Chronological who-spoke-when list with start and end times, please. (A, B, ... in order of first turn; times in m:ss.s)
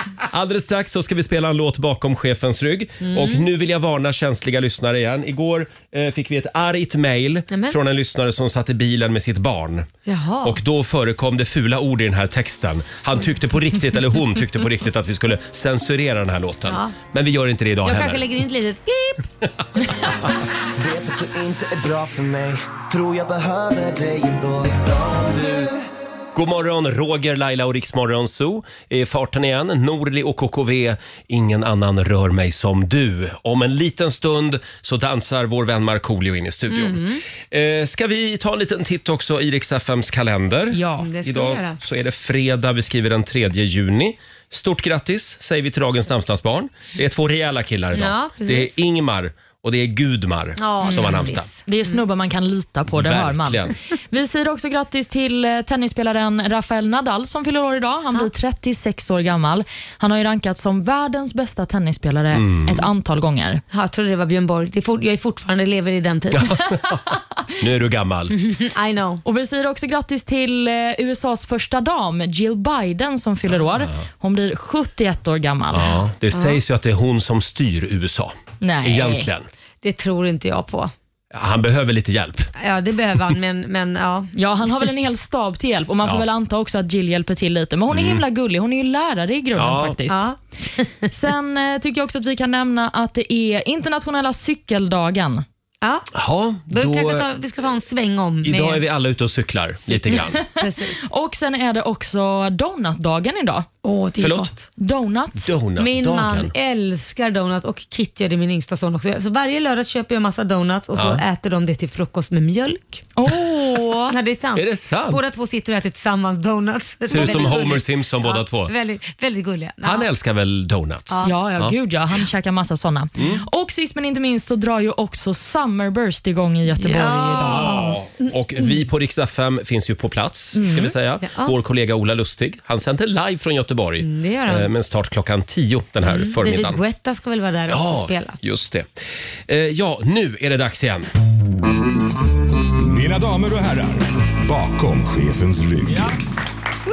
0:00.3-0:09.9 A
0:03.0-0:03.4 B
0:07.5-0:07.8 B
0:10.0-0:10.6 B
0:10.4-0:18.2 A
0:16.7-0:16.9 B
0:17.8-0:19.2 B
0:19.8-0:20.1 A
0:20.7-0:25.7 C
0:26.3-0:51.5 A
0:36.7-0:37.2 B
0:40.7-0:41.1 D
0:41.0-0:41.8 B
0:47.9-0:48.8 B
0:50.6-0:52.0 B
0:50.8-0:51.1 D
0:51.6-1:03.6 D
0:52.9-0:53.7 A
1:02.3-1:02.9 A
1:03.7-1:06.6 B
1:06.3-1:07.0 A
1:07.6-1:08.4 A
1:08.4-1:09.2 B
1:09.2-1:16.0 D
1:15.7-1:19.5 A
1:18.6-1:19.3 D
1:19.8-1:20.9 B
1:21.3-1:22.5 A
1:22.6-1:24.3 B
1:24.4-1:30.3 D
1:27.9-1:28.2 A
1:29.5-1:30.0 A
1:30.1-1:31.1 B
1:31.1-1:35.4 D
1:35.8-1:36.1 B
1:36.1-1:37.3 A
1:36.7-1:38.8 B
1:38.4-1:40.4 A
1:40.6-1:41.0 B
1:41.0-1:43.7 D
1:43.8-1:44.6 B
1:44.2-1:44.5 A
1:44.8-1:45.5 D
1:45.4-1:46.5 A
1:45.8-1:53.1 B
1:50.9-1:51.2 A
1:53.2-1:54.2 D
1:54.1-2:00.1 B
1:54.6-1:55.2 A
1:57.1-1:58.7 A
1:59.8-2:01.8 A
2:01.2-2:07.8 D
2:03.2-2:03.4 A
2:06.8-2:08.3 B
2:07.4-2:16.8 A
2:10.6-2:10.8 D
2:11.2-2:11.5 B
2:14.0-2:14.7 B
2:16.0-2:18.4 B
2:17.7-2:18.9 A
2:19.5-2:21.1 A
2:22.8-2:26.1 E